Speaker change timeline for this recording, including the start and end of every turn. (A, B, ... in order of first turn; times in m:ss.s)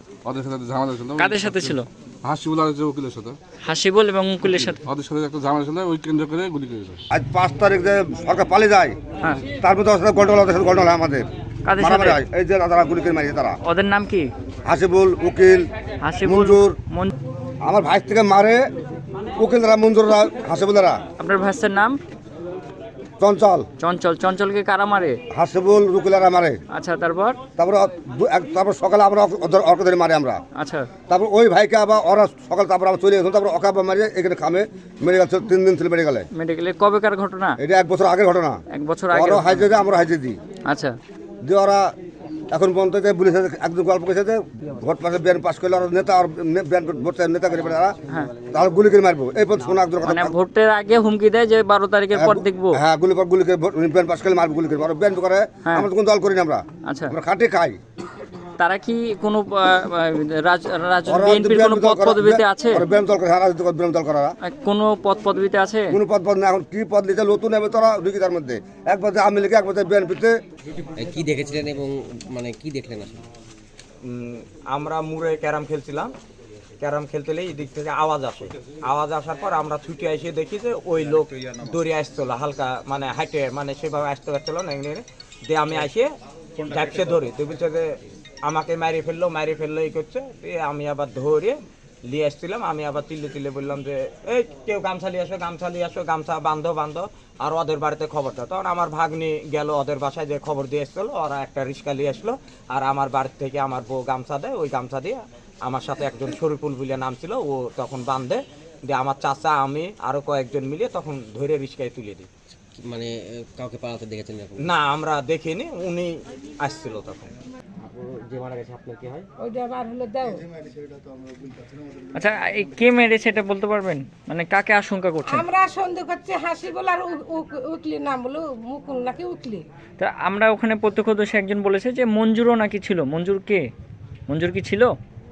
0:00.3-0:03.4 A
0:01.2-0:01.9 B
0:03.6-0:04.8 B
0:04.4-0:07.0 A
0:07.1-0:09.0 C
0:09.6-0:11.3 C
0:11.6-0:12.2 B
0:11.8-0:13.6 C
0:13.6-0:14.3 B
0:14.7-0:15.7 C
0:16.0-0:17.1 B
0:16.2-0:16.8 C
0:17.6-0:18.6 C
0:19.4-0:21.0 C
0:21.2-0:22.0 B
0:23.2-0:23.6 C
0:23.8-0:25.2 B
0:25.3-0:26.6 C
0:26.7-0:27.4 B
0:27.6-0:30.4 C
0:30.6-0:30.9 B
0:31.1-0:36.3 C
0:36.4-0:37.6 B
0:37.6-0:38.6 C
0:38.7-0:39.7 B
0:39.1-0:40.4 C
0:40.7-0:41.0 B
0:41.4-0:41.9 C
0:42.5-0:48.0 C
0:48.5-0:50.3 C
0:50.0-0:52.8 B
0:52.2-0:57.8 C
0:56.9-0:57.1 B
0:58.6-1:02.8 B
1:01.1-1:04.4 C
1:04.4-1:05.9 B
1:05.9-1:10.4 C
1:11.0-1:13.2 D
1:14.0-1:16.1 E
1:16.8-1:26.1 E
1:26.7-1:27.9 E
1:28.4-1:52.3 E
1:52.8-1:54.7 D
1:54.6-1:57.3 E
1:57.9-1:59.2 D
1:59.4-2:00.4 F
2:02.2-2:05.4 B
2:05.3-2:09.6 F
2:10.0-2:13.6 B
2:14.3-2:14.9 B